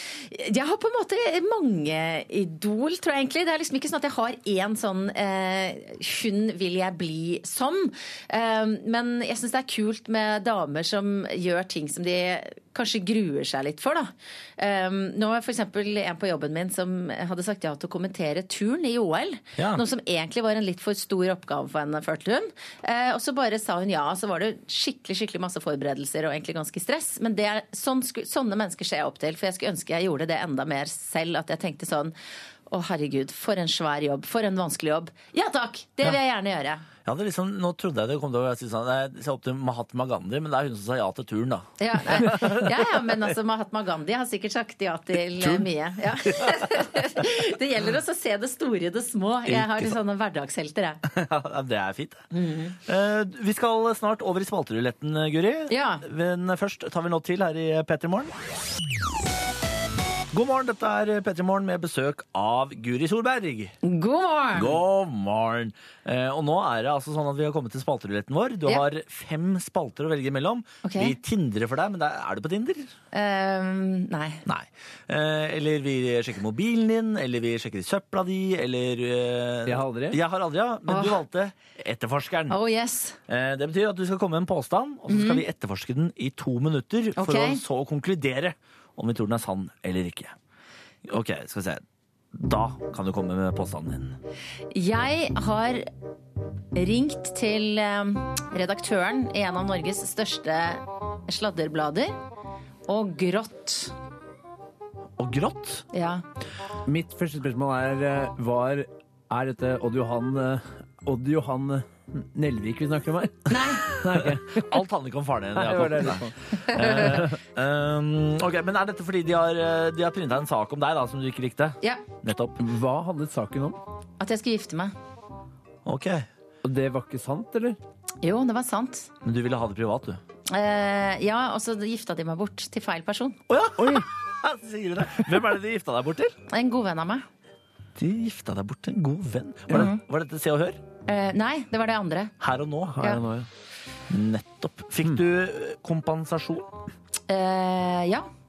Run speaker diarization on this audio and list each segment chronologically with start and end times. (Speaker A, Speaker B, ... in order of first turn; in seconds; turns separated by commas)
Speaker A: 0.3-32.1, Speaker B: 19.6-19.8, Speaker A: 32.7-36.8, Speaker B: 37.0-43.1, Speaker A: 41.8-51.0, Speaker B: 45.4-47.2, Speaker B: 49.5-50.0, Speaker B: 51.0-52.3, Speaker A: 52.3-52.8, Speaker B: 52.8-58.3, Speaker A: 55.7-56.0, Speaker B: 60.3-63.7, Speaker A: 63.8-64.8, Speaker B: 64.5-72.9, Speaker A: 70.8-71.2, Speaker A: 73.1-74.4, Speaker B: 74.5-82.6, Speaker C: 79.7-80.2, Speaker A: 80.9-81.2, Speaker A: 82.5-83.2, Speaker B: 83.3-90.3, Speaker A: 85.1-85.4, Speaker A: 87.2-87.6, Speaker B: 91.0-94.2, Speaker A: 94.7-95.9, Speaker A: 96.7-102.2, Speaker A: 102.9-103.9, Speaker B: 105.2-105.8, Speaker A: 105.9-106.2, Speaker C: 106.8-114.8, Speaker A: 113.5-113.9, Speaker B: 114.2-122.6, Speaker C: 115.5-117.4, Speaker A: 116.6-117.0, Speaker C: 122.6-123.8, Speaker A: 124.2-124.9, Speaker B: 125.8-126.3, Speaker C: 126.6-127.8, Speaker A: 128.2-129.1, Speaker B: 129.2-130.2, Speaker A: 130.5-133.4, Speaker B: 133.5-136.3, Speaker C: 133.8-134.1, Speaker A: 136.5-137.2, Speaker B: 138.0-140.8, Speaker A: 139.7-140.0, Speaker A: 141.1-142.3, Speaker B: 142.4-143.2, Speaker C: 142.9-143.5, Speaker B: 144.1-146.7, Speaker A: 147.3-148.3